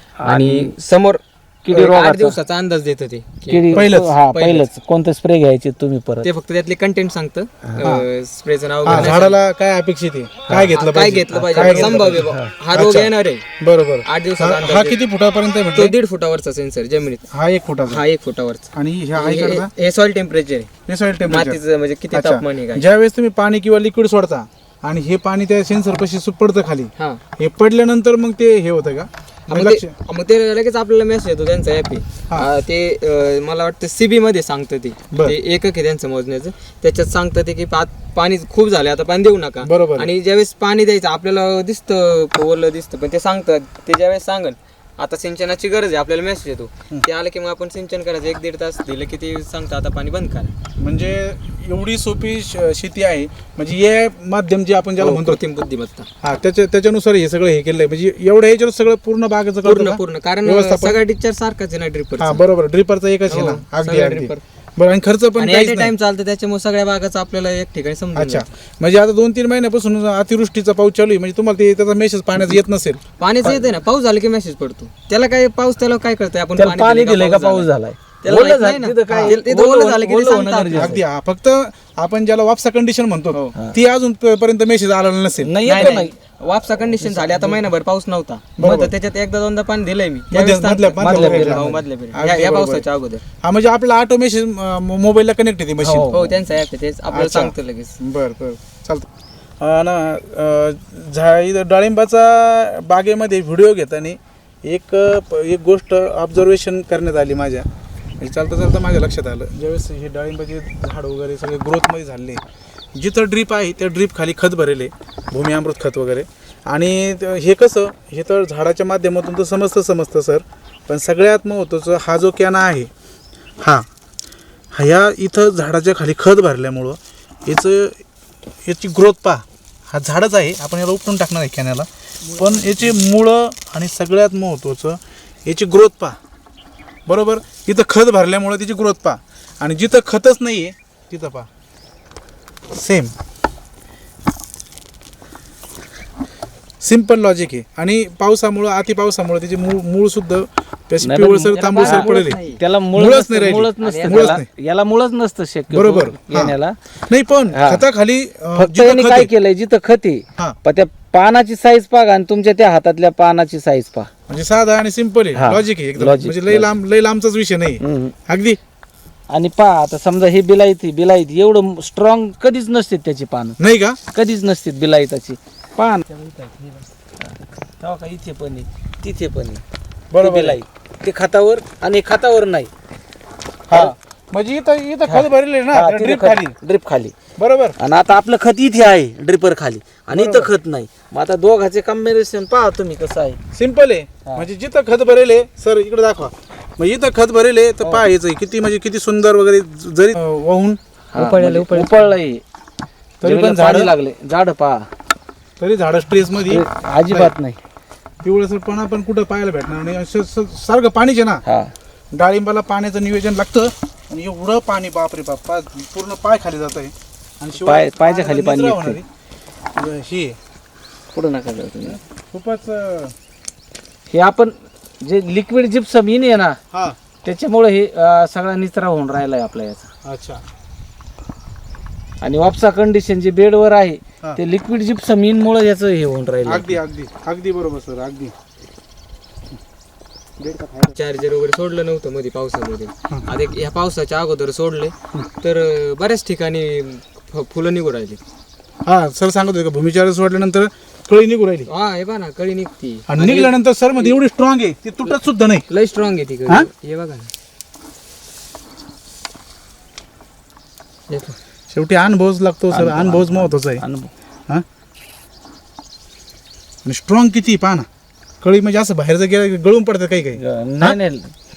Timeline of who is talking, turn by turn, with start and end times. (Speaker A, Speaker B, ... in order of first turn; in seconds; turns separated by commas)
Speaker A: 0.2-0.7, Speaker B: 0.2-4.7, Speaker A: 1.7-2.4, Speaker A: 3.5-6.3, Speaker C: 3.7-4.2, Speaker B: 6.2-9.4, Speaker C: 7.8-8.1, Speaker C: 8.8-15.9, Speaker B: 10.7-13.4, Speaker A: 11.3-12.5, Speaker B: 14.1-15.0, Speaker B: 15.7-17.2, Speaker C: 17.3-18.0, Speaker B: 17.9-20.7, Speaker C: 18.7-19.7, Speaker C: 20.9-21.6, Speaker B: 21.3-22.9, Speaker C: 22.1-29.9, Speaker B: 29.5-50.5, Speaker C: 39.6-40.1, Speaker C: 50.8-55.4, Speaker B: 55.0-56.1, Speaker C: 56.2-61.0, Speaker B: 59.6-62.4, Speaker C: 62.2-65.9, Speaker B: 63.3-64.4, Speaker B: 65.4-68.4, Speaker C: 68.1-73.5, Speaker B: 73.2-77.7, Speaker A: 76.5-81.0, Speaker B: 78.2-81.0, Speaker C: 79.1-79.4, Speaker C: 80.7-86.0, Speaker A: 85.4-86.1, Speaker B: 85.7-93.2, Speaker A: 87.0-87.5, Speaker C: 88.6-88.9, Speaker C: 90.3-92.8, Speaker A: 91.0-91.7, Speaker C: 93.4-96.1, Speaker A: 95.8-96.4, Speaker B: 96.1-98.0, Speaker C: 97.1-99.1, Speaker C: 99.6-107.7, Speaker C: 108.2-112.4, Speaker C: 112.9-122.9, Speaker C: 123.6-123.9, Speaker C: 124.7-128.0, Speaker C: 128.6-136.2, Speaker C: 137.1-141.5, Speaker C: 142.7-143.1, Speaker C: 146.8-152.4, Speaker A: 151.0-156.8, Speaker B: 151.5-152.6, Speaker C: 152.9-154.5, Speaker B: 153.8-154.4, Speaker C: 155.7-156.6, Speaker C: 157.1-159.3, Speaker A: 157.5-157.8, Speaker A: 158.5-164.1, Speaker C: 164.3-168.6, Speaker A: 165.3-166.7, Speaker A: 167.8-168.1, Speaker A: 169.3-173.6, Speaker C: 173.6-174.0, Speaker A: 174.1-179.6, Speaker C: 180.1-180.6, Speaker A: 180.2-182.7, Speaker C: 183.7-186.5, Speaker A: 185.1-187.1, Speaker C: 187.4-187.8, Speaker A: 187.8-193.4, Speaker C: 190.1-190.5, Speaker C: 193.5-200.8, Speaker A: 201.1-202.4, Speaker B: 201.1-202.2, Speaker C: 203.2-203.9, Speaker A: 203.2-204.9, Speaker C: 205.6-207.3, Speaker A: 206.5-207.6, Speaker C: 208.2-211.4, Speaker A: 211.4-211.7, Speaker C: 212.1-219.1, Speaker A: 217.6-219.0, Speaker C: 219.7-220.4, Speaker A: 221.1-222.0, Speaker C: 221.8-223.1, Speaker A: 224.1-226.6, Speaker C: 226.7-227.0, Speaker A: 227.2-229.9, Speaker C: 230.0-230.4, Speaker A: 232.2-236.8, Speaker C: 236.4-238.3, Speaker C: 240.4-240.9, Speaker B: 240.9-248.2, Speaker C: 248.8-251.7, Speaker B: 251.7-254.2, Speaker C: 253.1-255.6, Speaker B: 255.7-257.3, Speaker B: 261.1-261.4, Speaker C: 261.7-263.8, Speaker A: 262.7-264.1, Speaker C: 266.8-267.9, Speaker C: 268.4-271.0, Speaker A: 270.3-271.3